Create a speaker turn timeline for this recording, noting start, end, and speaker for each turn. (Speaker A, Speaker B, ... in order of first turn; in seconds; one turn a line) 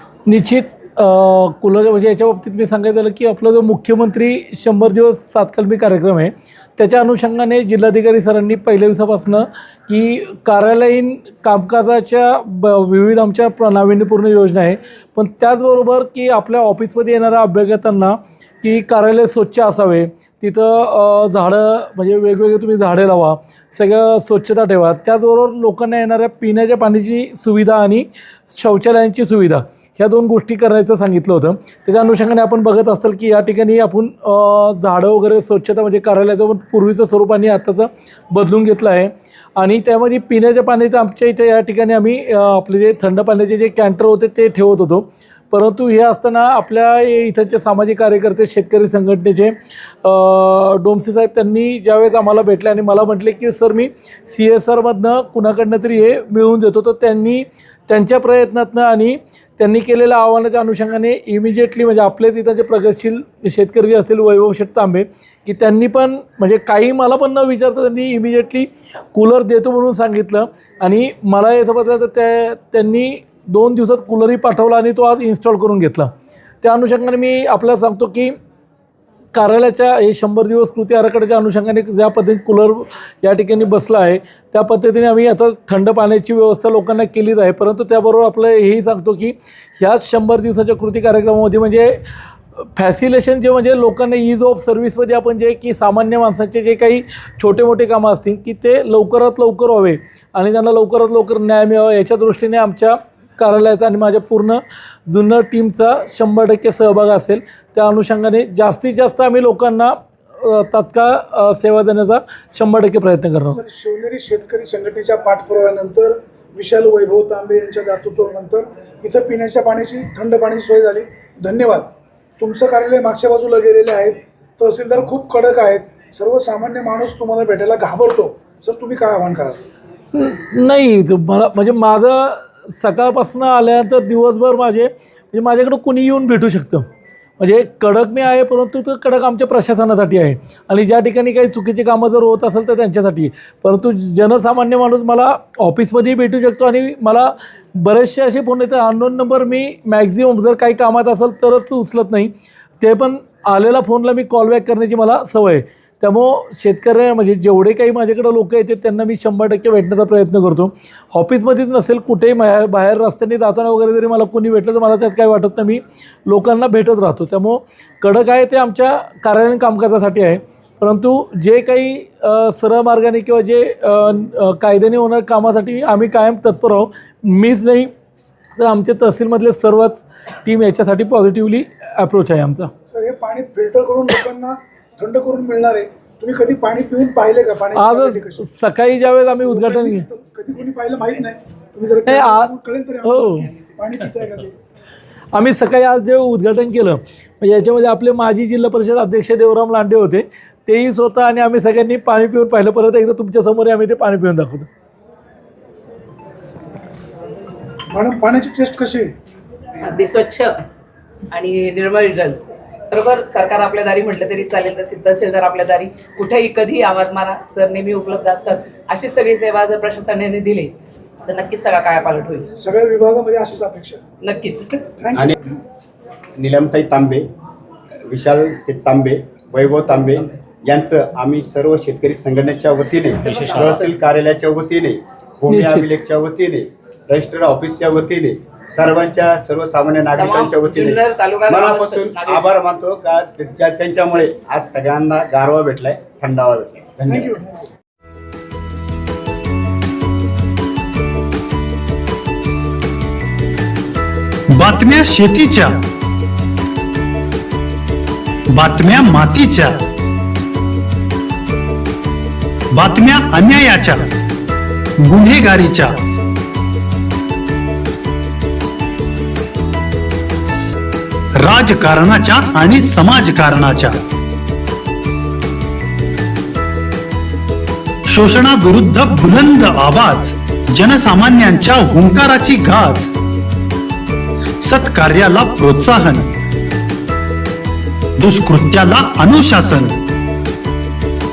Speaker A: 0.3-78.3
Speaker A: 79.3-92.0
Speaker A: 92.6-113.6
Speaker B: 113.5-121.9
Speaker B: 122.4-129.6
Speaker A: 130.1-136.9
Speaker A: 137.4-177.9
Speaker A: 178.6-182.7
Speaker B: 182.9-188.5
Speaker A: 187.8-190.1
Speaker B: 189.4-194.6
Speaker A: 192.1-192.5
Speaker A: 193.1-193.5
Speaker A: 195.3-204.7
Speaker B: 207.9-209.1
Speaker C: 209.8-210.5
Speaker C: 211.3-220.7
Speaker C: 221.3-222.5
Speaker B: 222.6-224.0
Speaker C: 224.2-224.9
Speaker B: 225.0-225.6
Speaker D: 226.4-227.3
Speaker D: 228.1-247.3
Speaker C: 233.2-233.9
Speaker A: 235.5-235.9
Speaker C: 240.2-242.5
Speaker B: 247.1-247.7
Speaker E: 254.5-255.8
Speaker E: 258.5-259.8
Speaker E: 262.7-264.1
Speaker E: 265.0-266.0
Speaker E: 271.4-274.0
Speaker E: 278.1-283.1
Speaker E: 284.6-286.3
Speaker E: 288.2-290.0